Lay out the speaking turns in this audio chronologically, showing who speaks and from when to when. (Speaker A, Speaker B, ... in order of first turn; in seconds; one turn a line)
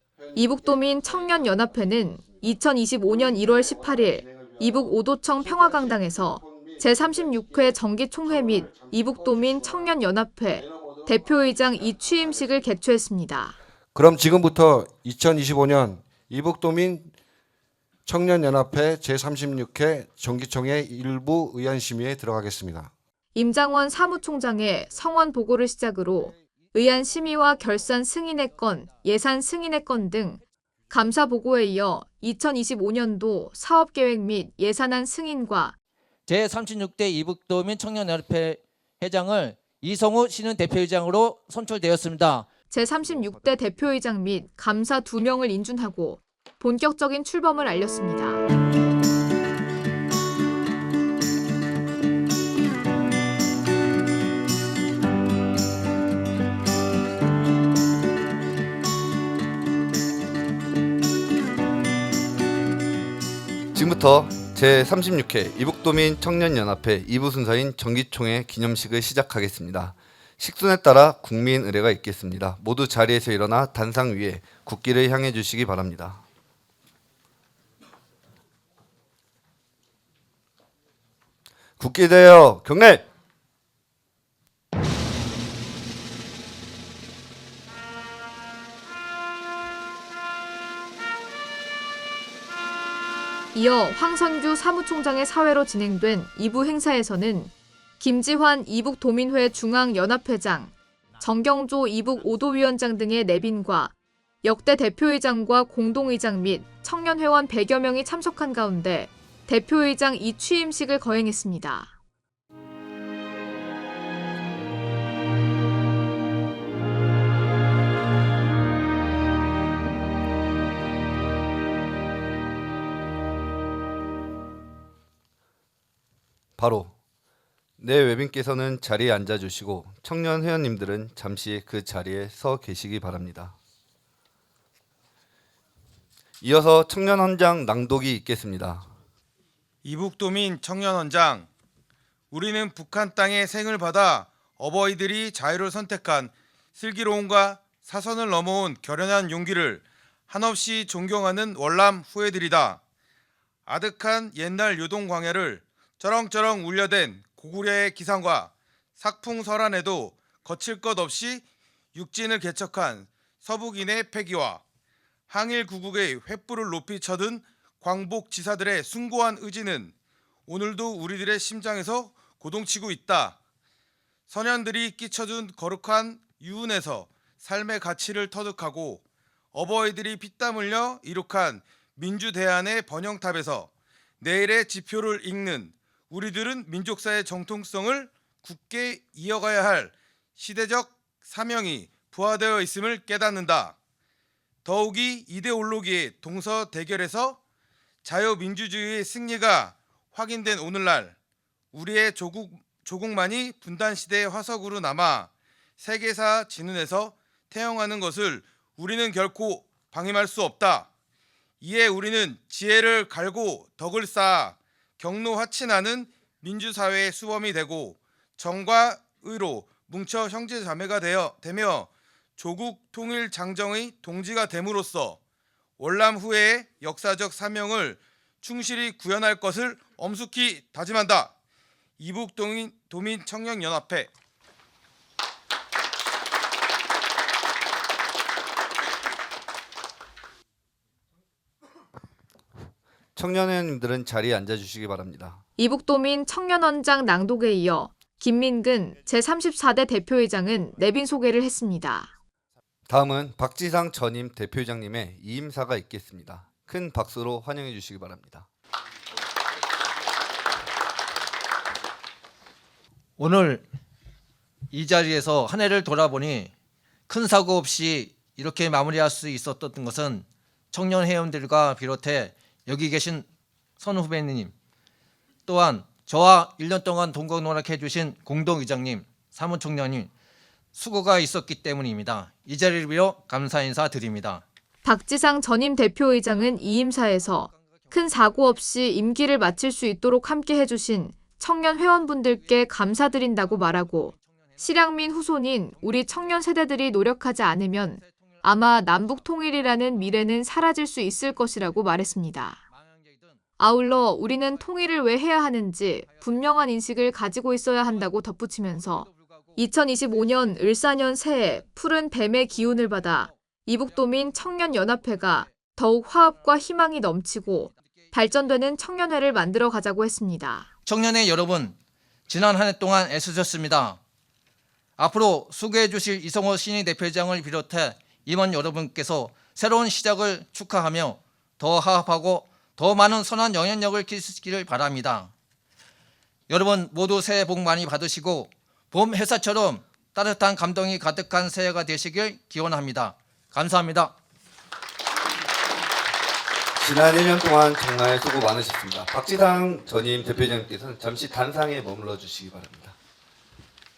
Speaker A: 0.3-13.6
Speaker B: 13.9-17.1
Speaker B: 18.1-22.9
Speaker A: 23.3-35.7
Speaker C: 36.3-42.5
Speaker A: 42.7-48.4
Speaker D: 63.7-76.2
Speaker D: 81.8-83.0
Speaker A: 93.5-111.9
Speaker D: 126.5-126.9
Speaker D: 127.8-133.6
Speaker D: 136.4-138.9
Speaker E: 139.8-141.5
Speaker E: 142.3-152.8
Speaker E: 153.7-164.6
Speaker E: 165.3-169.9
Speaker E: 170.5-173.4
Speaker E: 174.3-193.8
Speaker E: 194.6-197.4
Speaker E: 198.0-201.2
Speaker E: 201.7-210.9
Speaker E: 211.6-225.2
Speaker E: 225.8-231.3
Speaker E: 232.0-234.1
Speaker D: 243.2-245.4
Speaker A: 245.6-252.1
Speaker D: 252.9-258.5
Speaker C: 263.2-263.6
Speaker C: 264.7-266.5
Speaker C: 267.1-273.2
Speaker C: 273.8-274.5
Speaker C: 275.5-280.1
Speaker C: 280.7-284.4
Speaker A: 284.8-302.6
Speaker A: 303.6-320.7
Speaker C: 320.9-321.8
Speaker C: 322.3-324.0
Speaker C: 325.0-335.3
Speaker C: 336.5-344.1
Speaker D: 346.8-352.9